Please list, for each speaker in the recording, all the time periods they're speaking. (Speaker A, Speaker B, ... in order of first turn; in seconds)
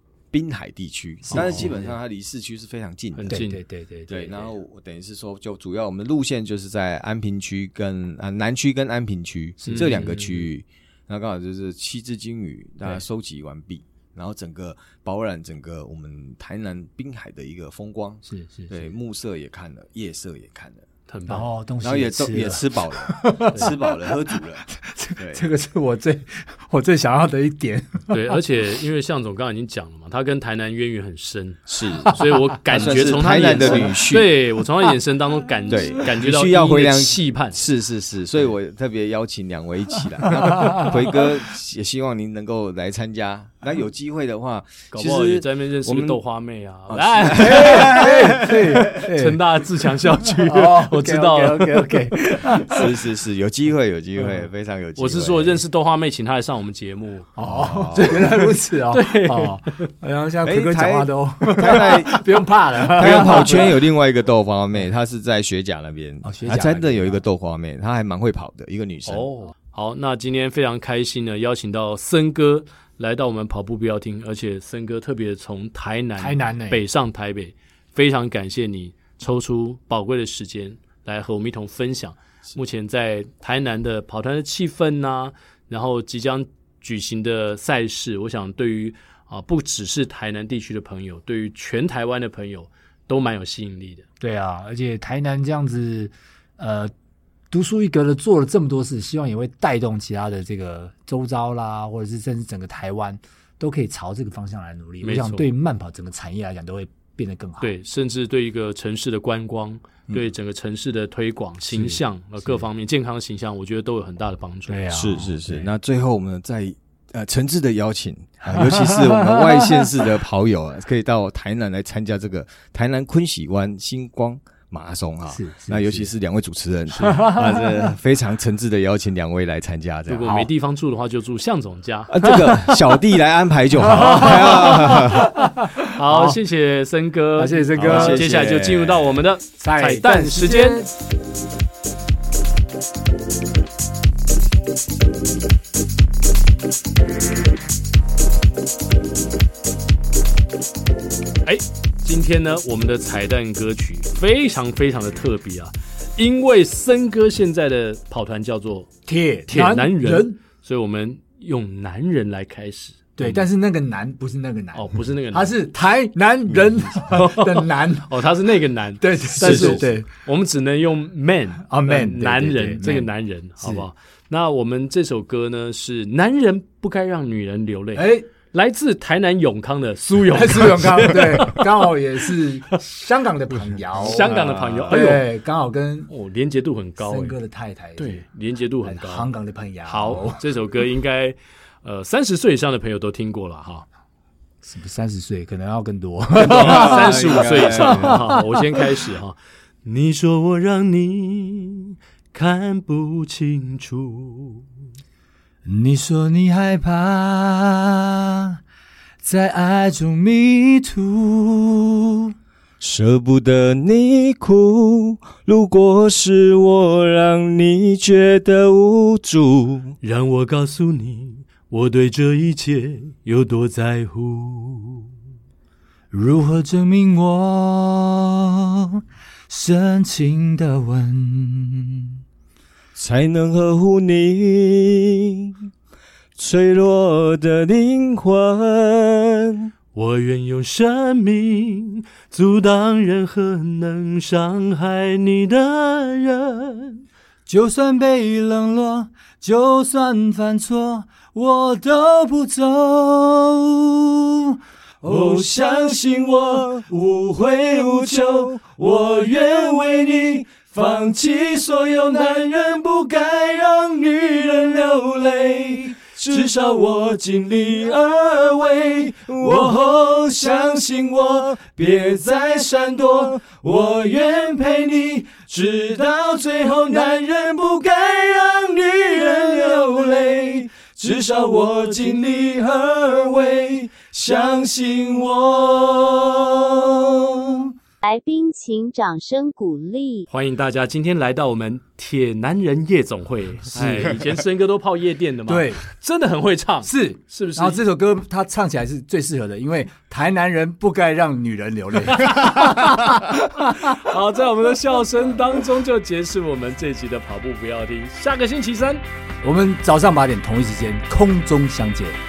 Speaker A: 0.3-3.5, 4.1-20.9, 21.8-25.5, 31.7-34.3, 35.7-46.2, 46.9-48.9, 52.6-55.6, 57.4-58.3, 60.4-62.3, 62.9-69.3, 114.9-130.4, 132.1-135.3, 137.8-139.2, 169.4-169.8, 184.4-184.9, 196.4-198.2, 212.8-219.9, 232.9-235.5, 236.3-239.7, 255.1-287.6
Speaker B: 1.2-1.9, 3.3-4.5, 9.6-10.1, 18.2-18.9, 21.3-28.2, 32.1-32.6, 33.6-34.2, 40.5-40.9, 47.3-49.5, 50.2-52.9, 57.4-63.8, 66.2-67.2, 76.2-76.8, 94.2-96.9, 97.5-107.7, 111.7-112.6, 114.7-115.7, 118.4-119.9, 125.3-126.1, 127.0-127.9, 133.8-136.4, 137.3-138.3, 139.6-140.9, 159.1-160.4, 163.2-168.2, 169.0-170.1, 171.7-173.9, 177.9-178.2, 180.1-186.1, 187.0-188.2, 188.8-190.4, 194.6-198.9, 205.6-208.6, 209.2-212.3, 226.1-232.1, 247.5-255.6, 293.7-294.3, 295.5-295.9, 296.9-304.0, 309.4-312.2
Speaker C: 1.3-1.8, 3.1-3.6, 9.7-10.5, 21.1-21.5, 28.1-37.6, 44.9-52.6, 55.0-57.3, 58.9-59.9, 61.7-62.0, 63.0-63.8, 69.1-94.0, 105.0-105.4, 107.6-115.1, 126.9-127.2, 130.1-132.1, 134.0-135.0, 135.8-140.9, 151.4-158.9, 159.5-163.5, 164.7-165.6, 166.5-182.8, 183.9-185.3, 186.1-187.4, 188.0-189.3, 189.8-193.8, 196.4-204.6, 220.0-225.1, 239.9-247.0, 266.3-266.6, 267.2-267.6, 268.8-269.8, 281.5-282.1, 290.3-297.8, 302.1-309.0
Speaker D: 288.0-290.3